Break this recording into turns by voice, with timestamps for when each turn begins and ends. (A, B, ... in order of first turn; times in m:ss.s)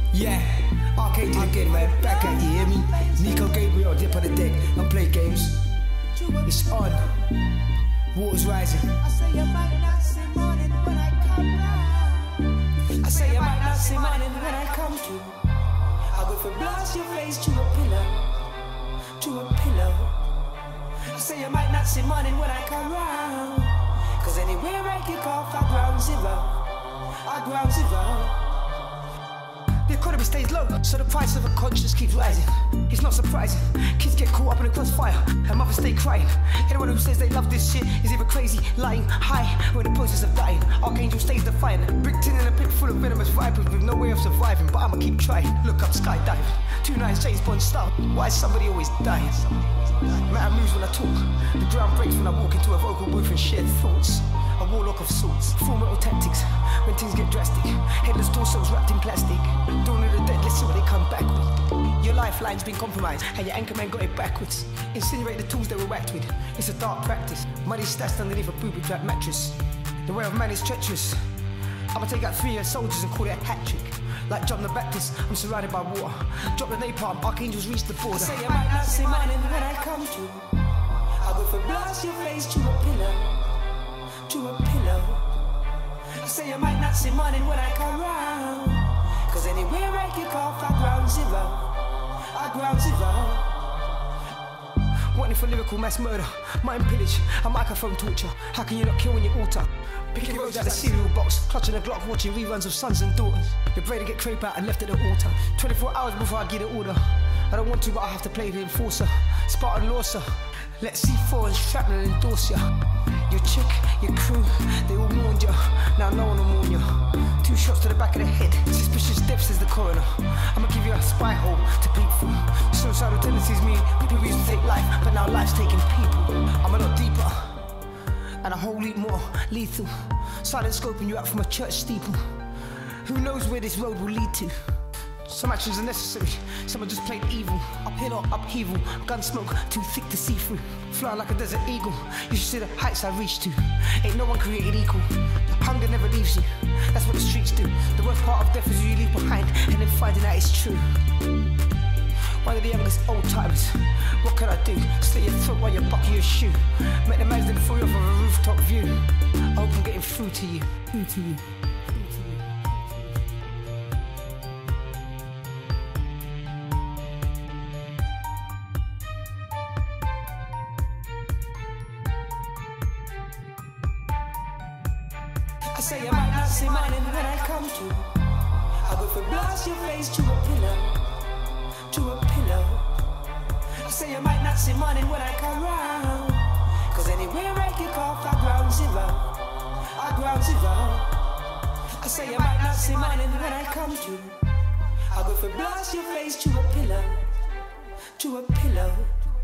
0:00.1-0:05.7 A
0:01.9-0:03.3 B
0:06.2-0:06.4 B
0:06.4-0:07.3 A
0:08.1-0:09.0 A
0:09.0-0:15.4 B
0:16.0-0:18.3 B
0:19.1-0:20.3 B
0:21.0-0:28.5 B
0:29.9-1:11.3 A
1:11.9-1:18.5 A
1:18.1-1:20.5 B
1:21.1-1:23.4 B
1:24.2-1:25.4 B
1:26.1-1:33.6 B
1:35.1-2:07.7 A
2:08.4-2:14.7 A
2:15.2-2:31.0 A
2:32.4-2:42.6 A
2:55.7-3:01.0 B
3:01.8-3:03.0 B
3:03.7-3:11.2 B
3:11.8-3:17.3 B
3:18.0-3:19.3 B